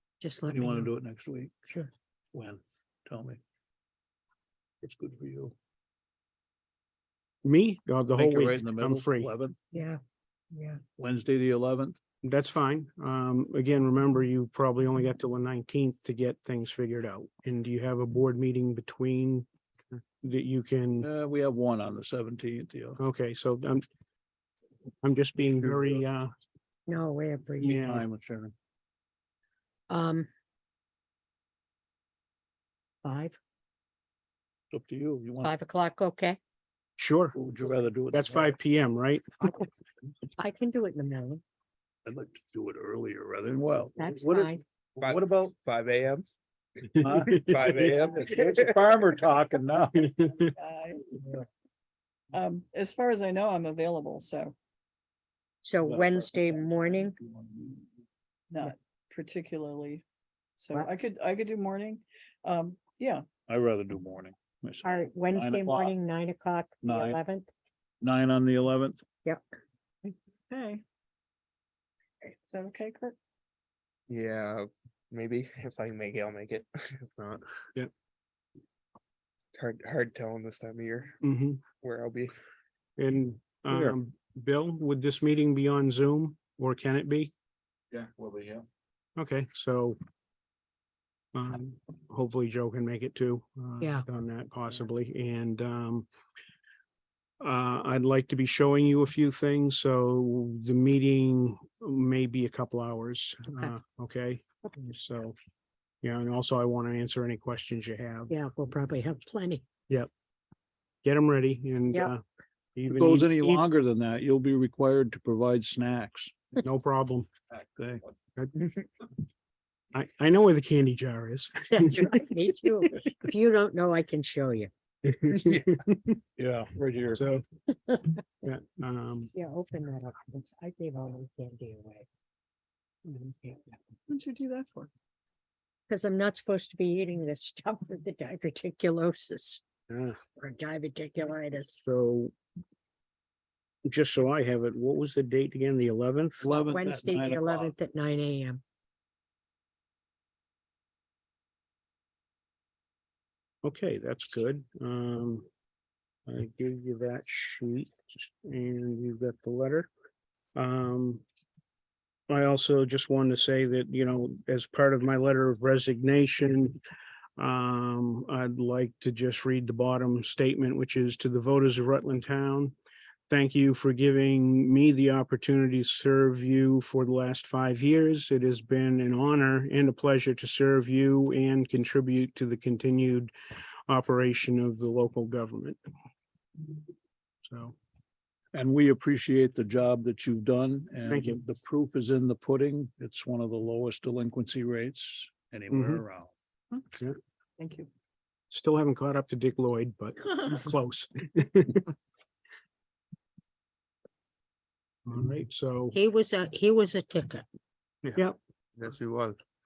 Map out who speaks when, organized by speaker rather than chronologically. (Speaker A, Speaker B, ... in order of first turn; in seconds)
Speaker A: 0.2-0.9, 9.7-10.0, 10.5-10.8, 26.9-27.8, 29.9-30.3, 33.0-33.4, 35.4-36.4, 40.4-41.4, 44.0-44.6, 55.6-57.2, 64.8-67.5, 108.3-109.6, 121.7-124.7, 127.9-128.2, 129.3-132.1, 133.1-133.8, 135.9-139.6, 140.4-141.8, 146.7-148.6, 205.9-207.4
Speaker B: 0.5-1.5, 2.3-3.4, 4.8-5.5, 8.2-9.6, 11.0-12.0, 21.0-23.0, 27.6-28.5, 34.7-35.5, 37.4-38.5, 42.1-45.5, 47.0-50.2, 55.9-57.9, 63.5-66.0, 66.8-67.2, 68.0-69.0, 87.9-88.6, 112.9-116.4, 117.6-118.0, 126.4-127.2, 146.4-147.7, 188.5-196.3
Speaker C: 7.4-9.3, 12.2-19.5, 20.2-21.1, 23.0-23.9, 25.0-26.3, 27.6-28.0, 37.0-37.4, 38.1-39.2, 47.0-47.6, 50.0-50.5, 81.2-81.6, 83.0-87.3, 89.2-90.0, 91.3-96.1, 97.4-105.3, 106.0-108.3, 111.0-112.2, 112.8-113.7, 116.6-117.3, 118.4-118.7, 119.9-122.1, 125.0-126.2, 127.1-127.5, 128.4-129.3, 139.9-140.2, 141.8-142.3, 143.8-146.5, 153.6-155.5, 156.3-159.9, 160.6-161.2, 162.3-166.8, 167.4-172.7, 173.3-183.3, 183.9-185.8, 187.4-187.8, 191.1-191.4, 195.7-196.0, 198.5-201.9, 205.1-206.0
Speaker D: 45.0-46.3, 47.2-48.8, 74.1-77.5, 79.5-81.2, 81.8-82.3, 208.8-209.4
Speaker E: 50.5-51.1, 52.3-54.5, 58.5-60.0, 60.6-63.3, 70.0-70.8, 72.2-73.2, 134.1-134.9, 197.6-197.9